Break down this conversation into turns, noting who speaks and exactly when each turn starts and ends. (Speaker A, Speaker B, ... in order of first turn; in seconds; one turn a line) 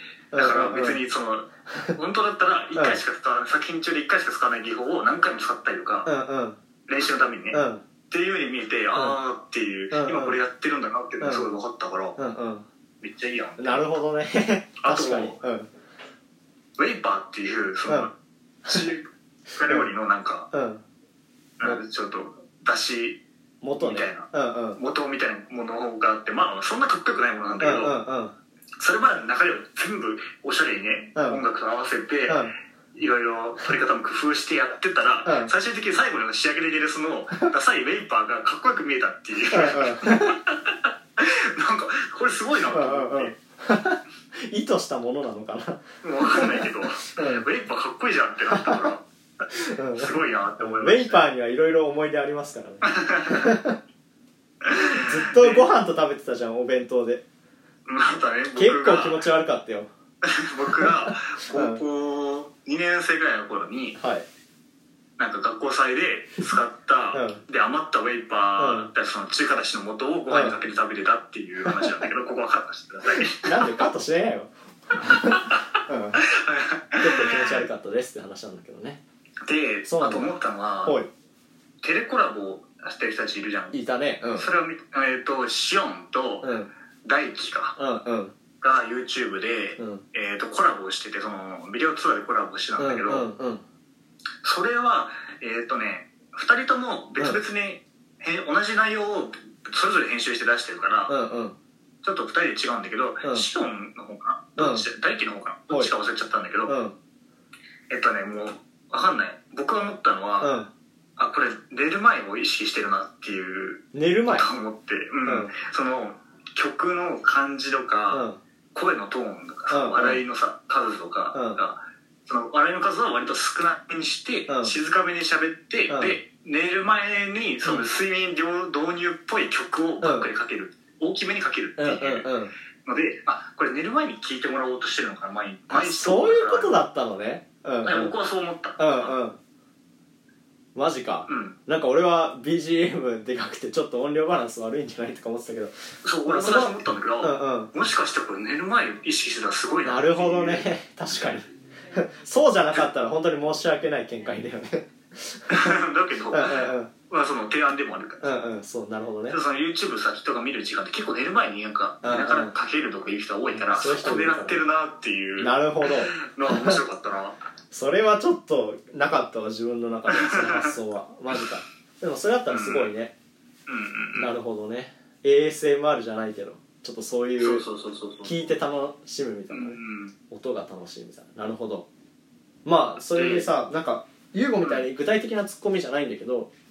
Speaker A: 0.3-1.0
Speaker B: 0.4-6.1
Speaker A: 6.1-6.6
Speaker B: 6.9-12.2
Speaker A: 7.5-7.8
Speaker A: 9.9-10.4
Speaker A: 11.2-11.5
Speaker A: 12.2-12.7
Speaker B: 13.0-14.0
Speaker A: 13.6-15.7
Speaker B: 14.8-15.4
Speaker B: 16.8-18.1
Speaker B: 18.7-20.5
Speaker A: 20.5-20.8
Speaker B: 21.6-23.2
Speaker A: 23.6-24.8
Speaker B: 23.8-28.0
Speaker A: 27.6-28.4
Speaker B: 28.8-32.4
Speaker A: 31.2-31.4
Speaker A: 32.3-32.5
Speaker B: 33.0-43.4
Speaker A: 35.3-35.5
Speaker A: 39.5-40.4
Speaker A: 42.7-47.5
Speaker B: 46.0-49.1
Speaker A: 48.5-48.9
Speaker A: 49.5-53.8
Speaker B: 50.0-51.2
Speaker B: 52.9-53.5
Speaker B: 54.6-55.7
Speaker A: 55.0-57.2
Speaker B: 57.9-59.2
Speaker A: 58.5-59.9
Speaker B: 60.2-64.0
Speaker A: 60.8-61.8
Speaker A: 64.0-64.3
Speaker B: 65.2-73.9
Speaker A: 67.1-67.4
Speaker A: 68.6-68.9
Speaker A: 70.3-70.6
Speaker A: 71.7-72.0
Speaker A: 73.1-76.3
Speaker B: 75.0-77.6
Speaker A: 77.0-79.0
Speaker B: 79.5-81.0
Speaker A: 79.8-81.1
Speaker B: 81.8-83.8
Speaker A: 83.7-84.5
Speaker B: 84.4-86.5
Speaker A: 86.4-86.7
Speaker B: 87.0-87.8
Speaker A: 87.8-88.3
Speaker B: 88.6-93.3
Speaker A: 89.8-90.0
Speaker A: 92.8-93.6
Speaker B: 94.4-101.1
Speaker A: 101.1-101.6
Speaker B: 102.0-106.8
Speaker A: 103.2-103.5
Speaker A: 104.6-104.9
Speaker A: 106.7-107.0
Speaker B: 107.9-110.6
Speaker A: 110.4-110.7
Speaker B: 111.2-132.3
Speaker A: 113.9-114.5
Speaker A: 115.2-115.5
Speaker A: 118.1-118.4
Speaker A: 119.7-120.2
Speaker A: 121.3-121.6
Speaker A: 124.5-124.7
Speaker A: 125.9-126.2
Speaker A: 130.0-130.3
Speaker A: 131.8-132.5
Speaker B: 132.8-136.8
Speaker A: 135.7-138.2
Speaker B: 137.8-139.2
Speaker A: 138.8-139.4
Speaker A: 140.8-147.7
Speaker B: 141.3-141.6
Speaker B: 146.0-150.7
Speaker A: 149.8-155.8
Speaker B: 155.5-158.3
Speaker A: 156.3-156.9
Speaker A: 158.2-159.4
Speaker B: 159.3-167.4
Speaker A: 162.0-162.5
Speaker A: 163.5-164.7
Speaker A: 165.4-166.8
Speaker A: 167.7-173.2
Speaker B: 170.1-170.7
Speaker B: 172.5-172.9
Speaker B: 173.7-174.3
Speaker A: 174.2-177.6
Speaker B: 177.4-178.3
Speaker A: 178.2-179.8
Speaker B: 179.5-180.1
Speaker A: 180.3-181.9
Speaker A: 182.7-186.5
Speaker B: 183.1-183.5